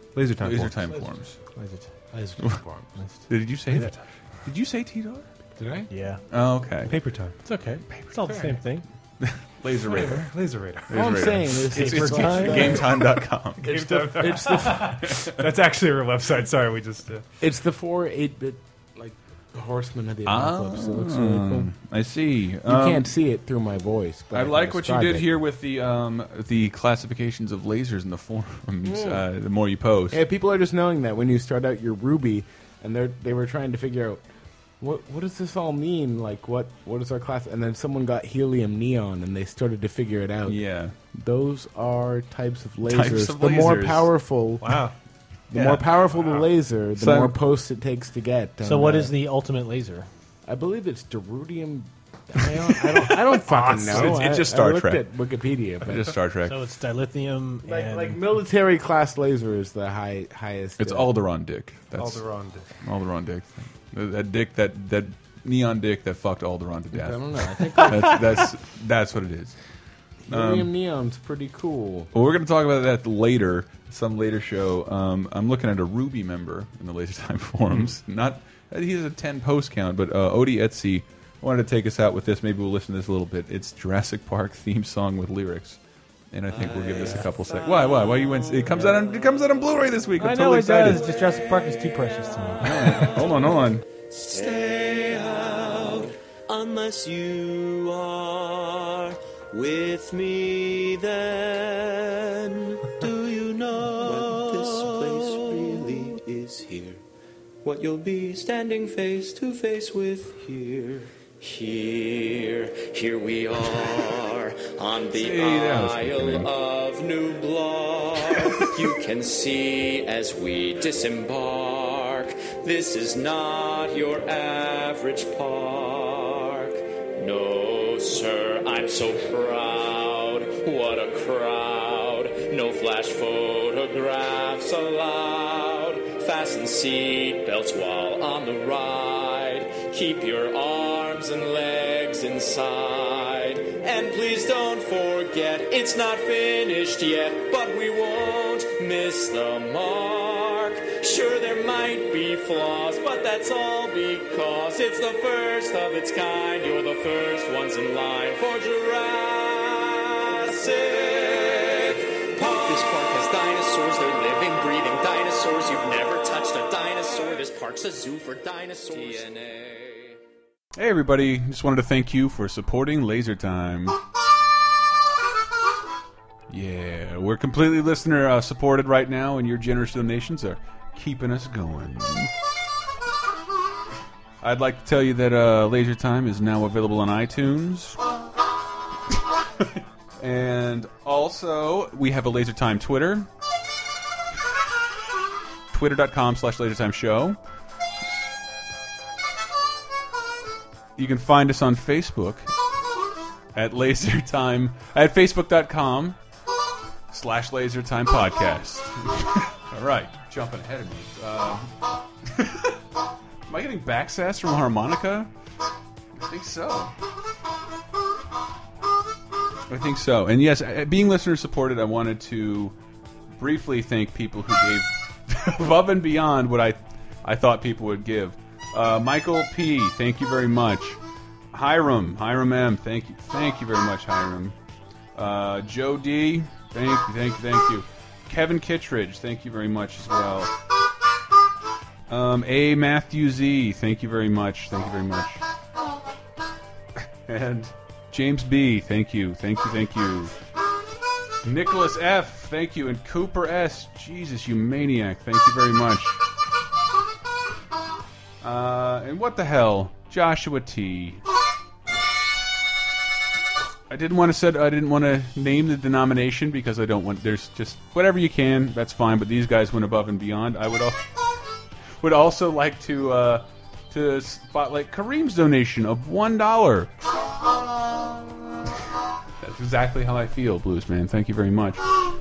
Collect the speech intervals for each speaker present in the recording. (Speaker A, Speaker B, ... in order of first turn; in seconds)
Speaker A: 0.1-0.8, 6.9-7.4, 9.9-11.3, 13.6-17.2, 62.0-62.7
Speaker B: 0.4-1.4, 3.3-5.3, 6.3-6.9, 9.2-10.3, 10.9-13.7, 15.0-15.4, 20.2-23.1, 24.3-30.2, 40.5-40.9, 42.9-44.1, 45.5-46.4, 47.0-47.4, 53.8-55.1, 55.8-56.5, 60.8-62.3, 62.8-69.5, 70.3-70.7, 72.1-85.8, 86.3-91.1, 92.6-93.8, 115.1-116.5, 170.8-174.0, 176.5-182.3, 184.4-188.0, 189.6-193.3, 195.7-197.4, 201.0-202.5, 203.5-206.2, 207.1-212.8, 213.5-215.3, 216.2-216.9, 219.7-222.7, 223.4-231.0, 231.5-234.5, 235.1-240.5, 242.1-245.4, 247.3-250.3, 251.4-256.2, 258.4-261.2, 263.9-271.0, 272.0-276.9, 279.4-281.9
Speaker C: 0.9-2.4, 5.9-6.2, 7.4-8.8, 11.7-12.8, 48.6-50.1, 56.5-58.2, 90.2-93.2
Speaker D: 2.1-2.9, 5.6-5.9, 8.2-8.6, 10.9-15.1, 17.4-21.7, 22.6-25.3, 28.8-29.2, 30.1-34.2, 34.8-40.6, 41.1-44.8, 45.5-49.1, 50.4-56.2, 57.6-61.1, 66.9-68.5, 70.2-72.1
Speaker E: 86.5-89.3, 92.9-93.3, 94.1-107.0, 107.6-170.2